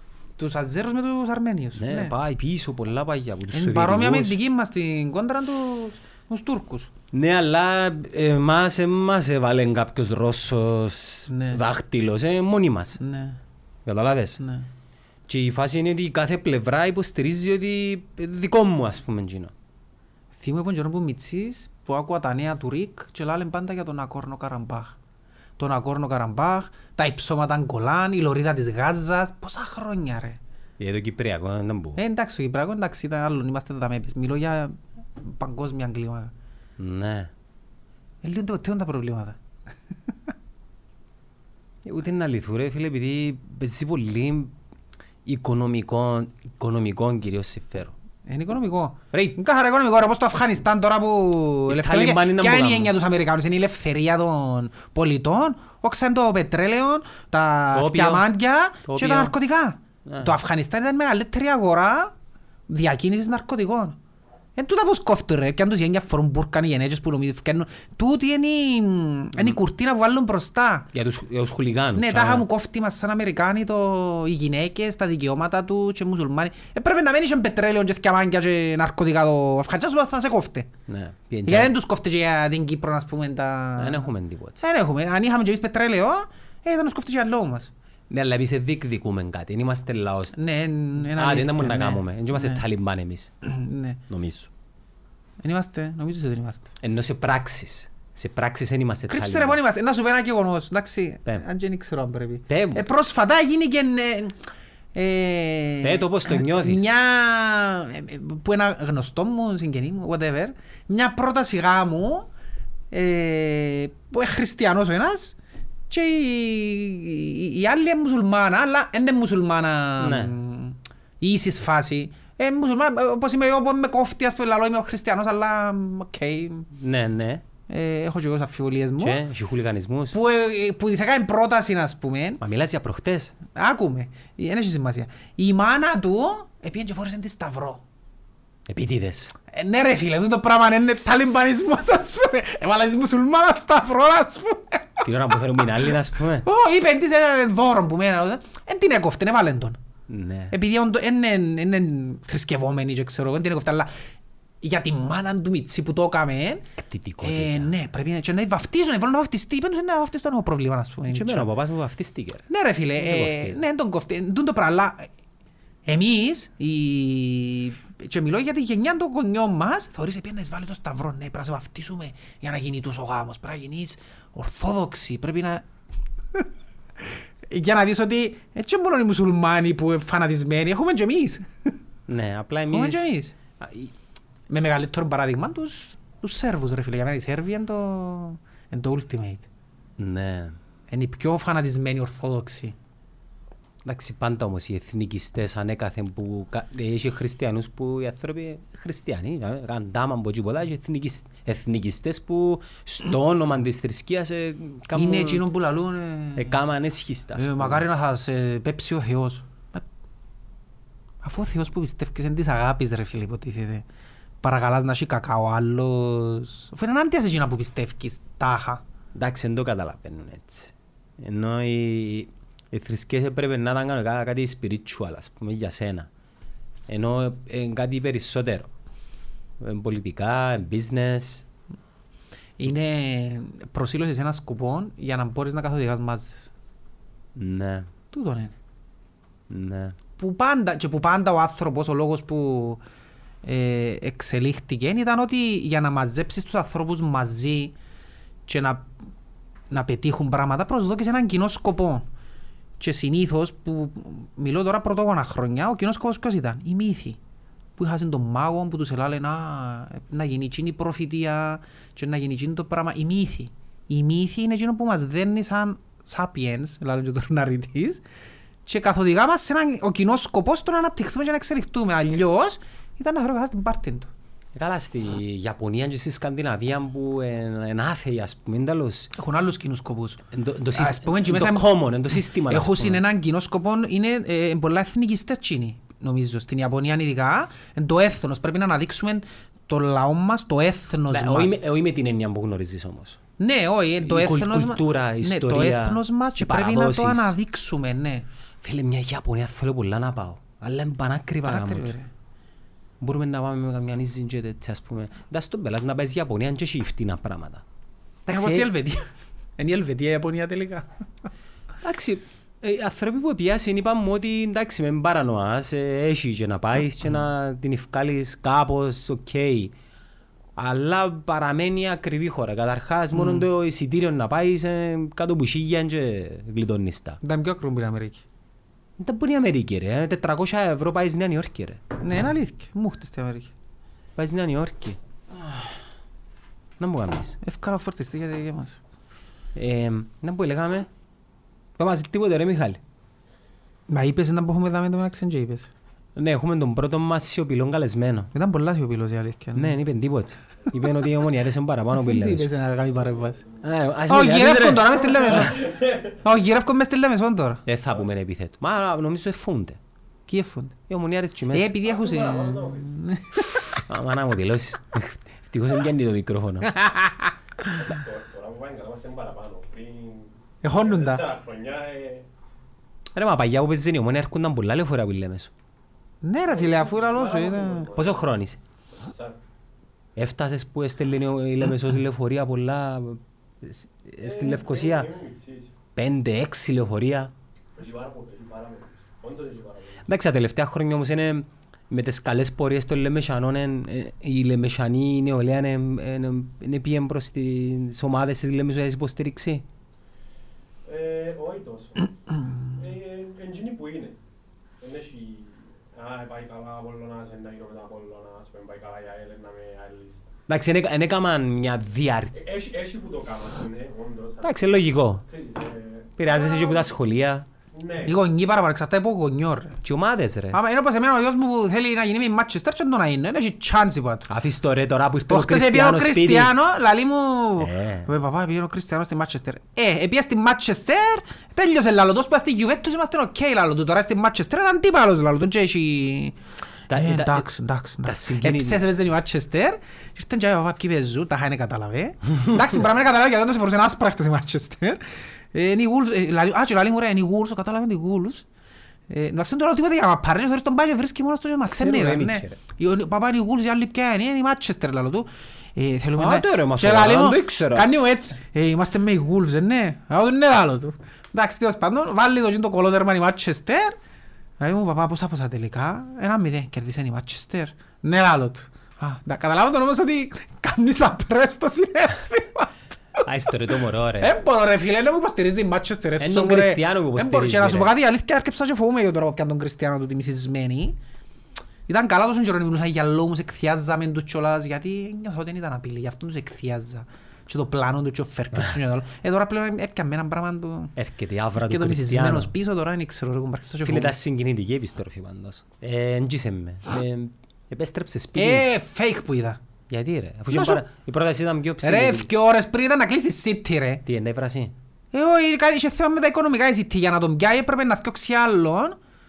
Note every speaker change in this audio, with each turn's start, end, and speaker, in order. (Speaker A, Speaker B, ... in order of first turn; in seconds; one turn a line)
Speaker A: 0.4-2.1
Speaker B: 1.8-4.4
Speaker A: 3.5-6.9
Speaker B: 7.1-13.0
Speaker A: 11.3-11.6
Speaker A: 13.0-13.4
Speaker B: 13.8-14.4
Speaker A: 14.4-14.7
Speaker B: 15.3-19.5
Speaker A: 20.4-24.9
Speaker A: 25.6-30.4
Speaker B: 30.8-32.0
Speaker A: 32.0-36.3
Speaker B: 36.8-37.3
Speaker A: 38.2-39.4
Speaker B: 41.8-44.5
Speaker B: 45.2-47.9
Speaker A: 48.2-62.1
Speaker B: 49.1-49.4
Speaker B: 51.7-52.9
Speaker B: 57.7-58.3
Speaker B: 58.8-59.3
Speaker B: 60.0-60.4
Speaker A: 62.7-64.0
Speaker A: 64.5-70.9
Speaker B: 70.9-72.5
Speaker A: 71.9-80.7
Speaker B: 80.9-81.7
Speaker A: 81.5-84.1
Speaker B: 83.8-84.6
Speaker A: 84.6-87.7
Speaker B: 88.1-90.4
Speaker A: 90.3-92.6
Speaker B: 91.0-93.3
Speaker A: 93.4-94.0
Speaker B: 94.1-94.5
Speaker A: 95.4-96.7
Speaker B: 96.8-99.6
Speaker A: 99.1-104.4
Speaker B: 102.5-102.9
Speaker A: 104.9-112.3
Speaker B: 105.8-106.8
Speaker A: 112.9-115.4
Speaker A: 115.9-126.7
Speaker B: 120.0-120.3
Speaker B: 126.7-127.4
Speaker A: 127.7-129.2
Speaker B: 129.0-130.2
Speaker A: 130.1-132.4
Speaker B: 132.4-133.3
Speaker A: 133.5-137.8
Speaker B: 138.7-139.3
Speaker A: 139.5-145.1
Speaker B: 145.0-146.5
Speaker A: 146.4-149.8
Speaker B: 150.1-150.5
Speaker A: 150.5-153.9
Speaker A: 154.6-156.7
Speaker B: 156.8-157.7
Speaker A: 157.2-161.5
Speaker B: 161.1-163.6
Speaker A: 162.5-165.1
Speaker A: 165.8-175.6
Speaker A: 177.0-181.7
Speaker B: 182.1-183.9
Speaker A: 182.7-183.3
Speaker A: 184.5-189.5
Speaker B: 190.0-190.6
Speaker A: 190.9-192.8
Speaker B: 193.8-205.4
Speaker A: 204.9-206.6
Speaker B: 206.3-207.8
Speaker A: 207.3-209.8
Speaker A: 211.2-213.8
Speaker A: 214.4-218.8
Speaker B: 219.1-226.1
Speaker B: 226.9-228.7
Speaker B: 229.6-231.4
Speaker A: 232.6-236.5
Speaker B: 237.3-237.9
Speaker A: 238.1-238.5
Speaker B: 239.5-240.0
Speaker A: 240.2-242.8
Speaker A: 243.4-247.7
Speaker A: 248.5-248.9
Speaker A: 249.7-252.1
Speaker A: 252.8-257.2
Speaker A: 257.8-268.0
Speaker A: 268.6-274.1
Speaker B: 274.5-279.1
Speaker A: 279.1-280.2
Speaker B: 280.3-283.0
Speaker A: 280.7-291.6
Speaker B: 291.1-293.2
Speaker A: 293.4-298.2
Speaker B: 294.0-297.3
Speaker B: 298.6-301.9
Speaker A: 301.4-302.1
Speaker B: 303.0-307.6
Speaker B: 308.2-308.7
Speaker A: 308.3-309.0
Speaker A: 309.6-310.9
Speaker B: 311.8-319.7
Speaker B: 320.6-327.2
Speaker A: 323.1-323.5
Speaker A: 327.2-328.2
Speaker B: 329.0-331.8
Speaker A: 332.0-333.5
Speaker B: 334.1-335.0
Speaker B: 336.8-337.4
Speaker A: 337.4-338.8
Speaker B: 339.5-340.9
Speaker B: 341.8-342.8
Speaker A: 343.9-345.7
Speaker B: 346.1-348.3
Speaker A: 348.3-349.8
Speaker B: 349.5-352.5
Speaker A: 351.9-353.4
Speaker C: 352.9-353.6
Speaker B: 353.6-355.6
Speaker A: 354.1-357.6
Speaker C: 355.1-356.2
Speaker B: 357.6-359.8
Speaker A: 360.3-360.8
Speaker B: 360.9-361.8
Speaker A: 361.5-363.8
Speaker C: 361.8-362.9
Speaker B: 363.7-366.7
Speaker A: 366.7-367.9
Speaker C: 367.8-372.3
Speaker A: 370.6-371.2
Speaker B: 373.1-375.5
Speaker A: 376.2-377.9
Speaker C: 376.4-378.4
Speaker B: 377.9-378.6
Speaker C: 378.9-379.4
Speaker B: 380.1-385.1
Speaker C: 384.2-385.8
Speaker B: 385.9-387.3
Speaker C: 387.8-390.1
Speaker B: 390.1-399.6
Speaker C: 400.8-404.2
Speaker C: 404.8-410.3
Speaker B: 410.5-412.4
Speaker C: 412.3-416.9
Speaker B: 414.4-415.2
Speaker B: 416.2-417.5
Speaker C: 417.7-418.1
Speaker A: 418.0-419.8
Speaker B: 419.8-420.6
Speaker A: 420.5-424.3
Speaker B: 424.3-426.5
Speaker A: 425.3-436.4
Speaker B: 427.6-428.1
Speaker B: 436.9-437.5
Speaker A: 436.9-448.4
Speaker B: 438.0-438.8
Speaker A: 449.1-463.9
Speaker B: 451.7-452.6
Speaker B: 456.2-457.9
Speaker A: 464.6-473.2
Speaker B: 473.2-474.3
Speaker A: 474.2-481.0
Speaker B: 476.2-477.9
Speaker A: 481.9-490.9
Speaker B: 490.9-492.5
Speaker A: 491.6-494.1
Speaker B: 493.8-498.7
Speaker A: 498.3-499.6
Speaker B: 499.9-502.3
Speaker A: 500.5-500.8
Speaker A: 501.8-504.0
Speaker B: 504.0-504.7
Speaker A: 505.1-509.0